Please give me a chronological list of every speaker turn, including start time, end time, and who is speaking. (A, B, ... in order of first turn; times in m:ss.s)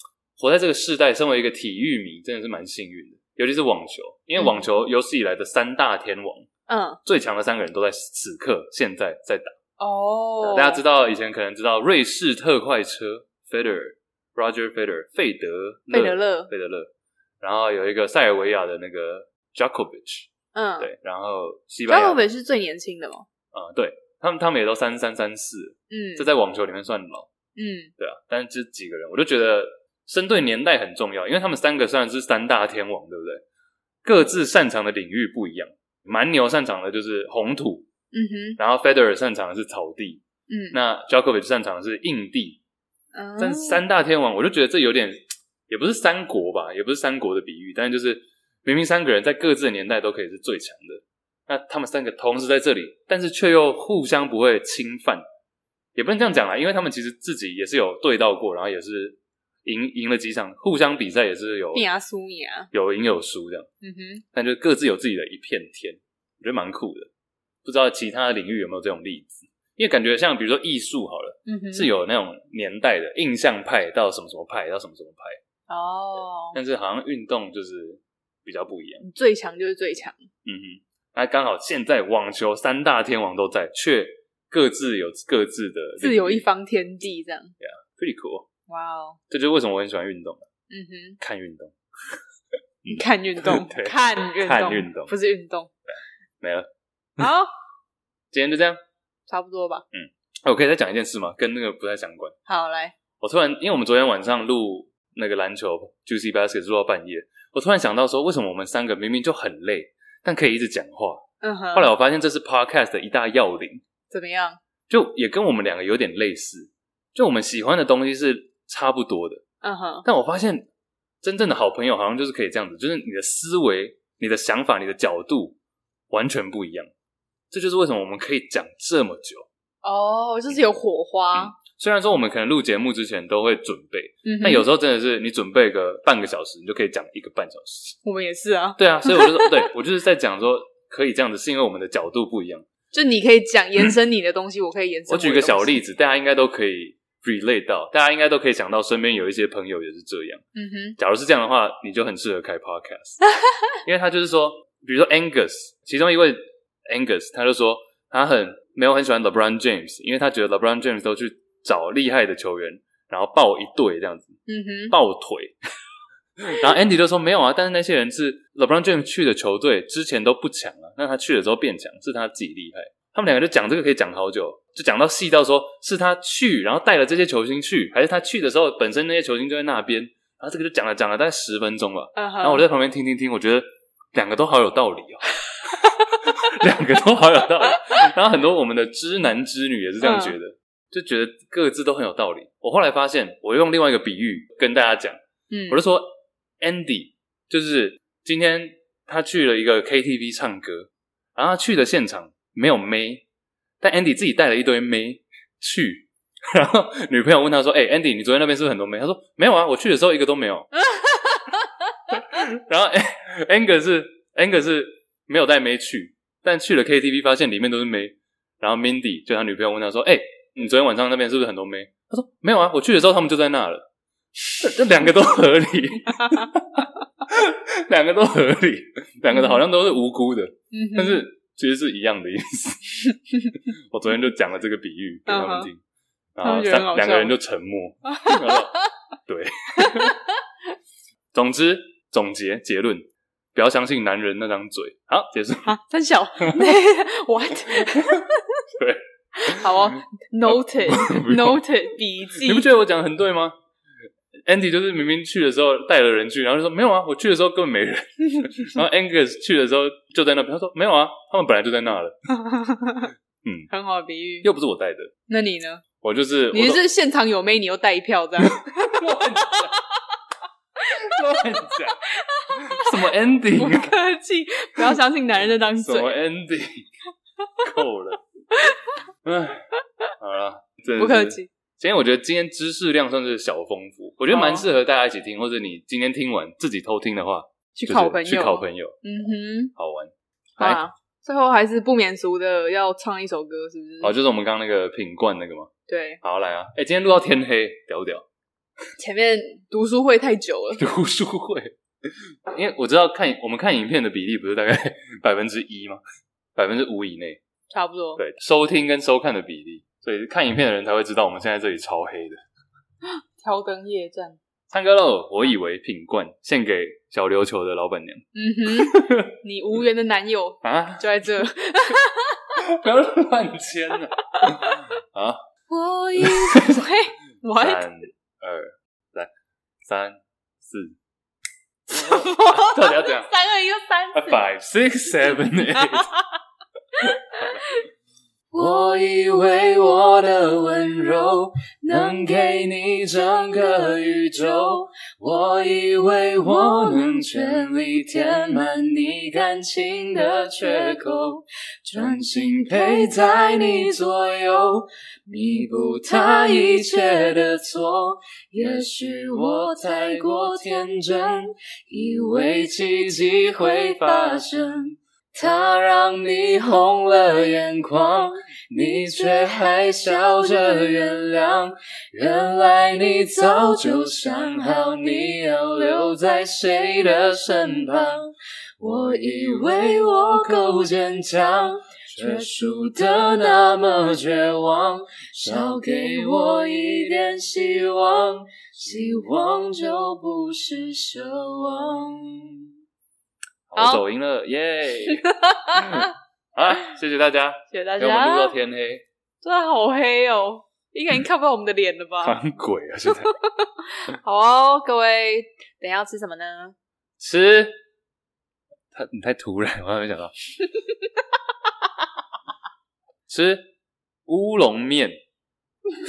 0:00.4-0:06.5 A
0:06.7-0:07.0 B
0:07.0-0:09.6 A
0:09.8-0:10.8 B
0:10.4-0:22.2 A
0:15.9-0:16.5 B
0:20.5-0:20.9 B
0:21.9-0:23.3 B
0:23.5-0:27.3 A
0:25.9-0:26.3 B
0:27.6-0:27.9 B
0:28.0-0:33.4 A
0:34.0-0:37.9 A
0:38.1-0:38.6 B
0:38.6-0:42.6 A
0:40.5-0:40.8 B
0:43.1-0:43.8 B
0:43.4-0:55.2 A
0:56.0-1:01.9 A
1:01.8-1:02.7 B
1:02.7-1:03.7 A
1:03.8-1:04.2 B
1:04.3-1:07.1 A
1:07.6-1:15.4 A
1:11.5-1:11.9 B
1:15.7-1:16.6 B
1:16.5-1:19.0 A
1:19.0-1:20.2 B
1:20.4-1:26.4 A
1:26.0-1:27.5 B
1:27.6-1:28.5 A
1:28.7-1:29.2 B
1:29.3-1:30.5 A
1:30.7-1:31.2 B
1:31.2-1:31.8 A
1:32.8-1:35.1 A
1:32.9-1:35.7 B
1:36.4-1:36.7 A
1:37.2-1:37.5 B
1:38.3-1:38.8 A
1:39.3-1:39.8 B
1:39.9-1:42.4 A
1:42.5-1:43.0 B
1:43.2-1:53.8 A
1:51.4-1:51.9 B
1:54.1-1:54.6 B
1:54.9-1:59.4 A
1:59.6-2:00.0 B
2:00.0-2:00.7 A
2:01.2-2:05.6 A
2:06.1-2:06.9 A
2:07.5-2:09.5 A
2:09.8-2:11.6 B
2:11.3-2:18.0 A
2:14.2-2:14.7 B
2:18.0-2:19.7 B
2:18.8-2:22.7 A
2:22.9-2:25.8 B
2:25.1-2:30.4 A
2:30.6-2:31.0 B
2:31.0-2:33.2 A
2:33.8-2:44.4 A
2:44.5-2:45.0 B
2:44.9-2:45.6 A
2:46.4-3:23.2 A
3:02.2-3:02.6 B
3:10.0-3:10.4 B
3:15.5-3:15.8 B
3:23.8-3:30.7 A
3:30.8-3:31.7 B
3:32.1-3:43.9 A
3:44.5-3:55.8 A
3:46.1-3:46.4 B
3:49.3-3:49.6 B
3:50.7-3:51.2 B
3:55.3-3:55.7 B
3:56.4-4:00.2 A
3:56.4-3:57.4 B
3:58.2-3:58.9 B
3:59.8-4:00.3 B
4:01.3-4:05.8 A
4:05.6-4:08.6 B
4:07.8-4:11.7 A
4:09.4-4:12.7 B
4:12.3-4:13.6 A
4:14.5-4:22.2 A
4:22.3-4:23.1 B
4:23.4-4:23.7 A
4:23.7-4:24.5 B
4:24.4-4:25.1 A
4:25.3-4:25.8 B
4:26.0-4:26.8 A
4:26.5-4:29.8 B
4:28.5-4:29.8 A
4:30.8-4:34.0 A
4:30.9-4:31.2 B
4:32.1-4:36.2 B
4:35.8-4:36.9 A
4:37.6-4:38.2 A
4:39.2-4:49.0 A
4:41.0-4:41.5 B
4:44.3-4:44.7 B
4:47.8-4:49.7 B
4:49.8-4:50.8 A
4:50.6-4:54.1 B
4:54.0-4:55.7 A
4:55.9-4:56.2 B
4:56.2-4:58.2 A
4:59.0-5:00.8 B
5:00.8-5:01.8 A
5:02.5-5:06.0 A
5:06.6-5:07.4 A
5:07.7-5:08.2 B
5:08.2-5:12.4 A
5:13.0-5:14.4 B
5:14.7-5:19.3 A
5:18.3-5:22.5 B
5:20.6-5:21.1 A
5:22.6-5:25.4 A
5:24.4-5:24.8 B
5:25.7-5:27.8 B
5:26.2-5:26.7 A
5:27.6-5:29.3 A
5:29.8-5:31.0 A
5:31.9-5:34.4 B
5:32.0-5:33.3 A
5:34.1-5:36.1 A
5:37.0-5:37.8 B
5:37.0-5:37.6 A
5:38.5-6:32.6 C
6:33.7-6:39.0 A
6:33.8-6:34.0 B
6:35.1-6:36.1 B
6:37.7-6:38.6 B
6:39.4-6:42.4 B
6:42.2-6:43.4 A
6:43.1-6:46.8 B
6:47.2-6:47.8 A
6:48.9-6:50.3 A
6:53.3-6:53.7 A
6:54.3-6:55.2 A